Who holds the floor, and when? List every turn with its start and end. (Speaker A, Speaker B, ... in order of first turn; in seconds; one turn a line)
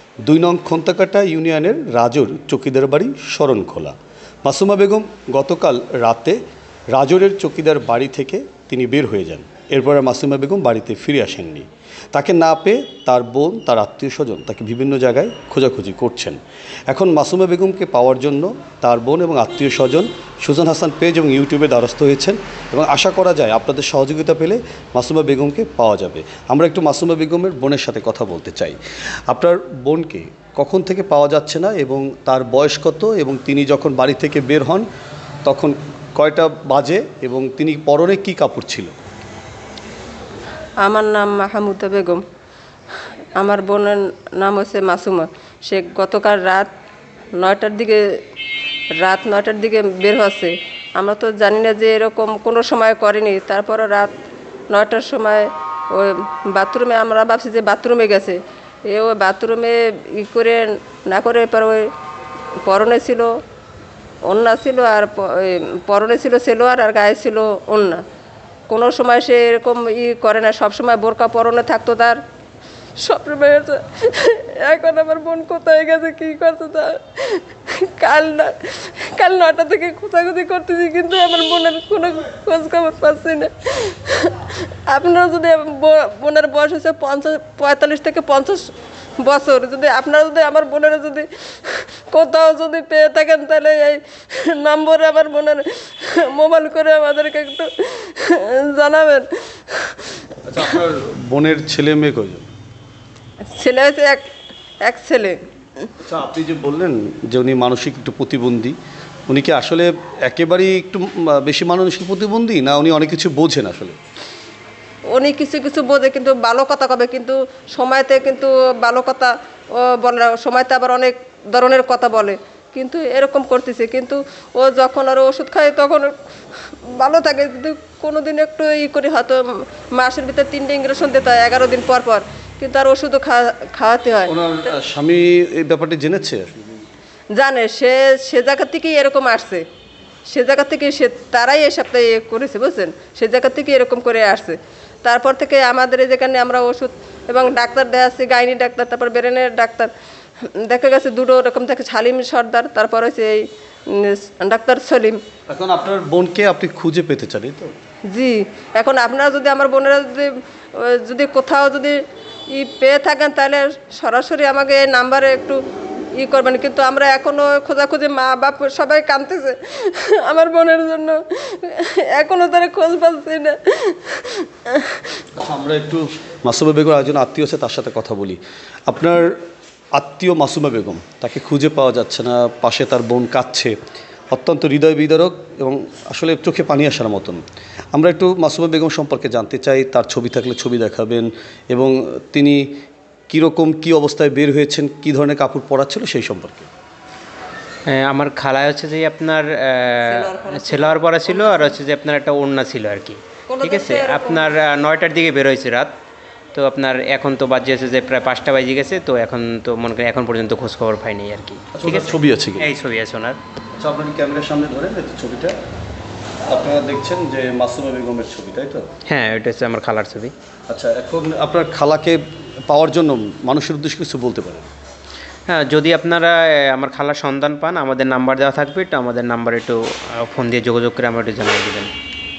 Speaker A: 0.2-6.4
Speaker A: 6.9-34.9
Speaker A: 35.4-38.9
Speaker B: 40.8-42.2
Speaker B: 43.4-46.7
Speaker B: 47.4-48.0
Speaker B: 49.0-54.1
Speaker B: 54.7-58.4
Speaker B: 58.9-61.9
Speaker B: 62.6-63.3
Speaker B: 64.3-68.0
Speaker B: 68.7-72.2
Speaker B: 73.0-88.7
Speaker B: 89.2-100.1
Speaker A: 100.4-102.5
Speaker B: 103.4-104.3
Speaker B: 104.8-105.4
Speaker A: 106.0-108.7
Speaker A: 109.3-114.0
Speaker B: 115.1-126.1
Speaker B: 126.8-134.4
Speaker A: 134.2-136.8
Speaker B: 137.3-139.6
Speaker B: 140.3-149.9
Speaker B: 150.5-155.2
Speaker A: 155.5-157.7
Speaker B: 158.1-162.0
Speaker B: 162.5-165.6
Speaker B: 166.2-175.1
Speaker A: 175.3-179.3
Speaker A: 179.9-183.7
Speaker A: 184.3-192.6
Speaker A: 193.3-196.7
Speaker C: 197.9-205.9
Speaker B: 200.0-201.8
Speaker B: 203.5-204.5
Speaker C: 206.5-213.4
Speaker A: 211.8-212.7
Speaker A: 213.8-215.6
Speaker A: 216.5-218.8
Speaker C: 219.1-220.3
Speaker A: 220.7-224.7
Speaker C: 225.5-231.9